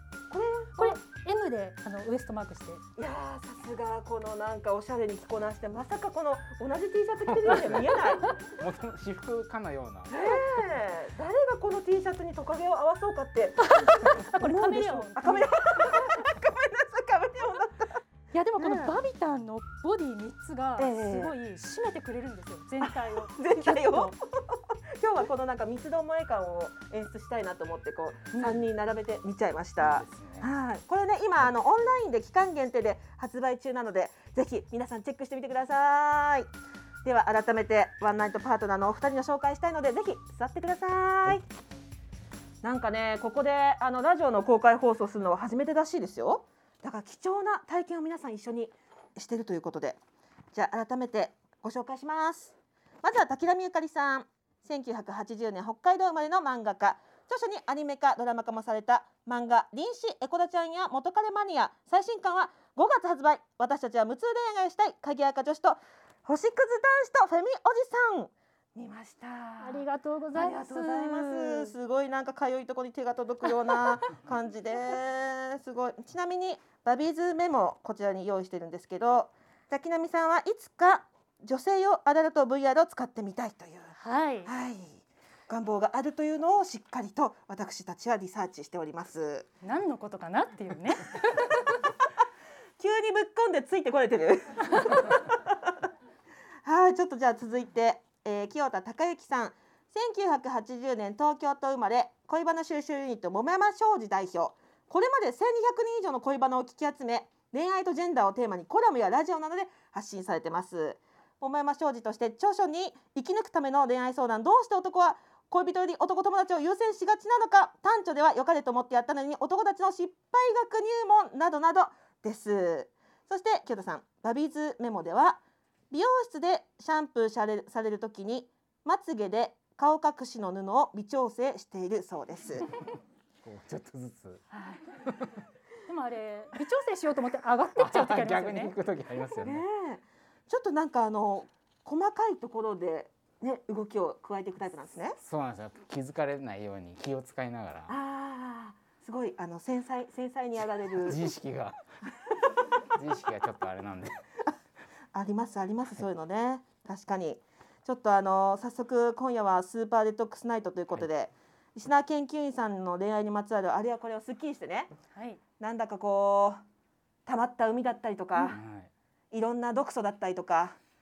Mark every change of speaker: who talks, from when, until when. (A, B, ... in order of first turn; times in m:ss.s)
0:00.3-0:01.0 A
0:00.8-0:02.8 B
0:03.0-0:08.4 A
0:07.3-0:10.1 C
0:10.1-0:18.0 A
0:13.6-0:15.5 B
0:18.3-0:24.2 B
0:18.6-0:19.0 A
0:20.8-0:21.3 A
0:22.8-0:24.2 A
0:25.0-0:36.5 A
0:28.3-0:28.6 B
0:29.8-0:30.5 C
0:37.0-0:41.4 A
0:42.6-0:50.0 A
0:50.5-1:09.8 A
1:09.6-1:11.7 B
1:10.3-1:23.9 A
1:24.0-1:24.5 B
1:24.5-1:29.5 A
1:29.6-1:31.5 B
1:32.8-1:35.4 A
1:36.6-2:12.6 A
2:13.4-2:14.4 C
2:14.5-2:14.8 A
2:15.9-2:18.8 B
2:17.8-2:19.6 C
2:19.4-2:25.2 A
2:25.2-2:27.9 C
2:27.9-2:31.2 A
2:31.0-2:31.8 C
2:33.0-2:34.2 C
2:35.1-2:44.9 A
2:45.1-2:45.4 B
2:45.6-2:46.6 A
2:47.2-2:48.5 A
2:48.5-2:48.9 C
2:49.3-2:50.8 A